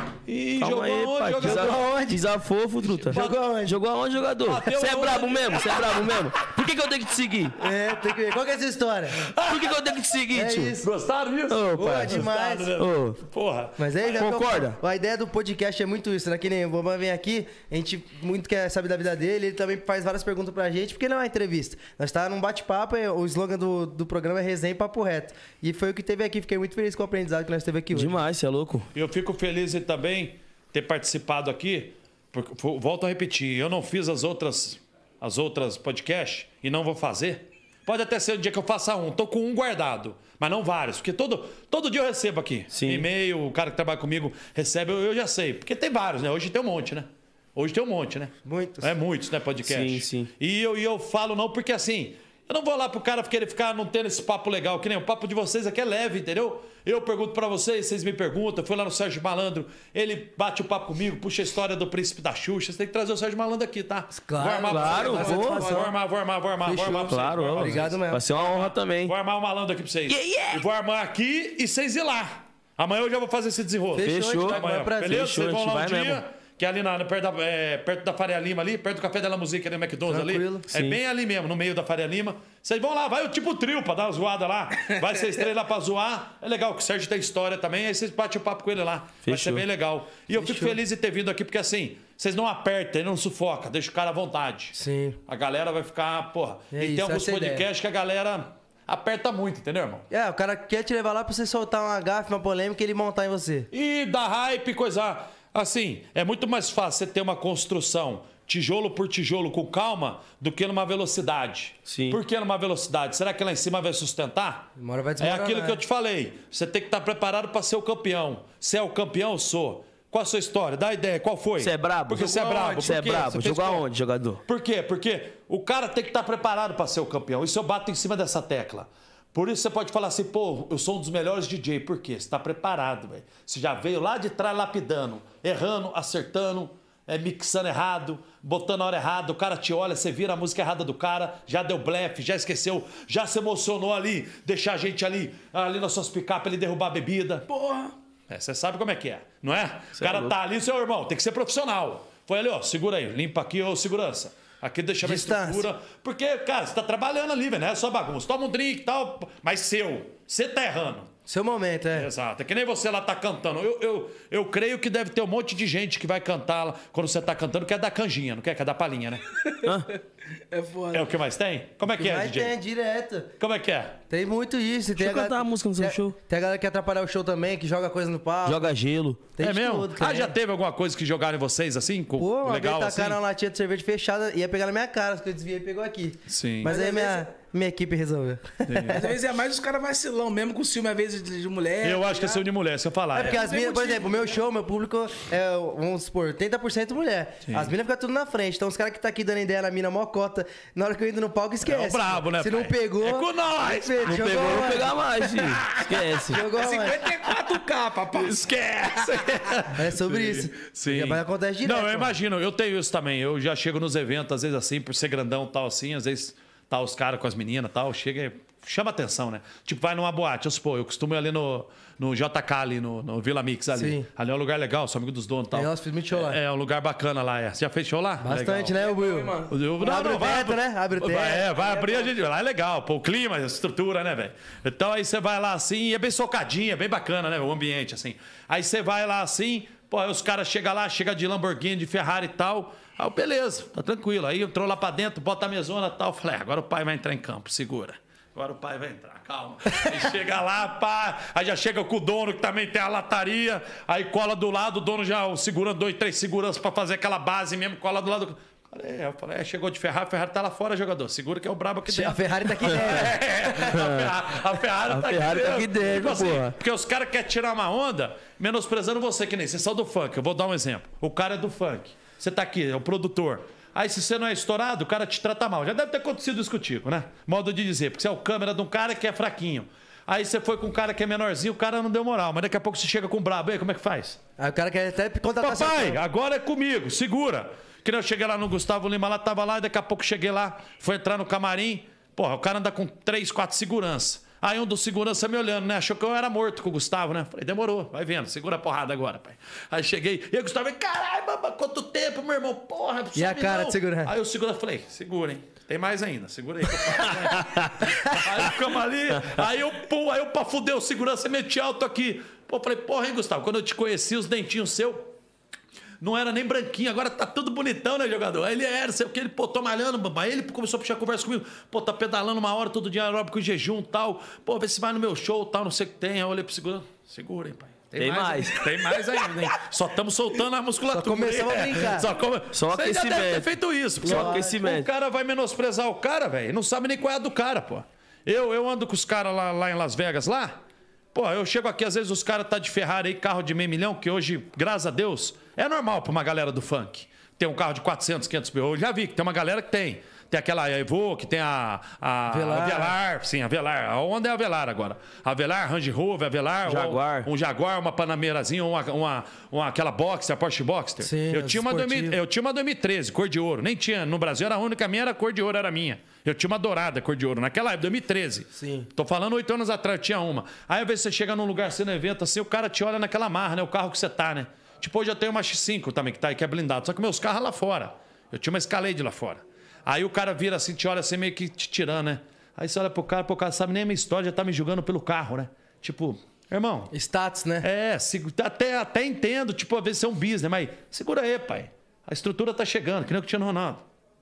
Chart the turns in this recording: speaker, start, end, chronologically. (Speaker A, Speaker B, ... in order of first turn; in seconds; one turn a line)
Speaker A: 0.3-1.9
Speaker B: 0.6-7.5
Speaker C: 1.4-2.2
Speaker A: 3.0-3.4
Speaker C: 3.1-3.8
Speaker A: 4.4-6.5
Speaker C: 7.6-9.2
Speaker A: 7.8-8.1
Speaker A: 9.2-10.2
Speaker B: 9.5-10.7
Speaker C: 10.3-10.9
Speaker A: 10.8-13.9
Speaker B: 11.5-12.2
Speaker C: 11.7-12.7
Speaker B: 12.8-13.2
Speaker C: 13.8-28.2
Speaker B: 14.1-14.8
Speaker B: 27.9-28.9
Speaker A: 28.9-94.8
Speaker B: 42.7-43.1
Speaker C: 48.4-48.9
Speaker B: 49.6-50.3
Speaker C: 64.1-65.9
Speaker B: 64.7-65.7
Speaker D: 64.9-65.7
Speaker C: 66.6-68.2
Speaker B: 67.1-69.1
Speaker B: 70.1-70.6
Speaker C: 73.9-75.3
Speaker B: 74.0-76.2
Speaker C: 80.1-80.7
Speaker B: 80.7-81.0
Speaker B: 89.2-89.6
Speaker C: 90.3-90.8
Speaker C: 94.8-95.2
Speaker A: 95.3-100.1
Speaker C: 96.7-97.7
Speaker C: 100.1-103.7
Speaker A: 103.7-123.9
Speaker B: 111.9-112.2
Speaker C: 114.8-115.8
Speaker B: 121.6-124.4
Speaker A: 124.5-147.5
Speaker D: 147.5-147.9
Speaker A: 148.3-161.1
Speaker B: 150.0-150.3
Speaker C: 155.0-155.7
Speaker C: 161.3-162.1
Speaker A: 161.9-169.2
Speaker D: 169.4-169.7
Speaker B: 169.6-169.9
Speaker D: 170.5-171.1
Speaker A: 170.9-172.6
Speaker C: 171.9-173.3
Speaker A: 173.4-174.0
Speaker C: 174.1-178.7
Speaker B: 175.0-176.2
Speaker B: 178.4-179.2
Speaker C: 179.4-180.3
Speaker A: 179.4-183.2
Speaker C: 182.2-189.1
Speaker A: 186.3-186.8
Speaker D: 186.7-187.3
Speaker A: 188.7-189.0
Speaker D: 188.9-192.4
Speaker A: 191.8-193.4
Speaker C: 193.1-205.3
Speaker D: 193.2-194.4
Speaker A: 197.5-197.7
Speaker A: 201.6-204.9
Speaker B: 204.0-206.4
Speaker A: 205.5-206.1
Speaker C: 206.3-207.1
Speaker D: 206.5-208.5
Speaker A: 208.1-228.7
Speaker C: 209.7-212.1
Speaker C: 223.7-224.1
Speaker C: 225.5-226.4
Speaker C: 228.2-231.5
Speaker D: 228.7-229.6
Speaker A: 229.5-284.2
Speaker D: 231.6-232.1
Speaker C: 261.9-263.7
Speaker B: 263.7-264.1
Speaker B: 264.9-266.6
Speaker C: 284.4-286.0
Speaker A: 285.4-315.1
Speaker C: 303.1-304.1
Speaker B: 307.1-307.9
Speaker A: 316.0-340.6
Speaker B: 328.0-328.7
Speaker C: 330.9-332.1
Speaker B: 332.5-333.5
Speaker C: 334.0-334.6
Speaker B: 334.0-334.9
Speaker A: 341.1-386.9
Speaker C: 352.3-353.0
Speaker B: 356.7-357.3
Speaker C: 361.0-362.2
Speaker C: 368.6-368.9
Speaker C: 386.9-387.7
Speaker A: 387.6-393.8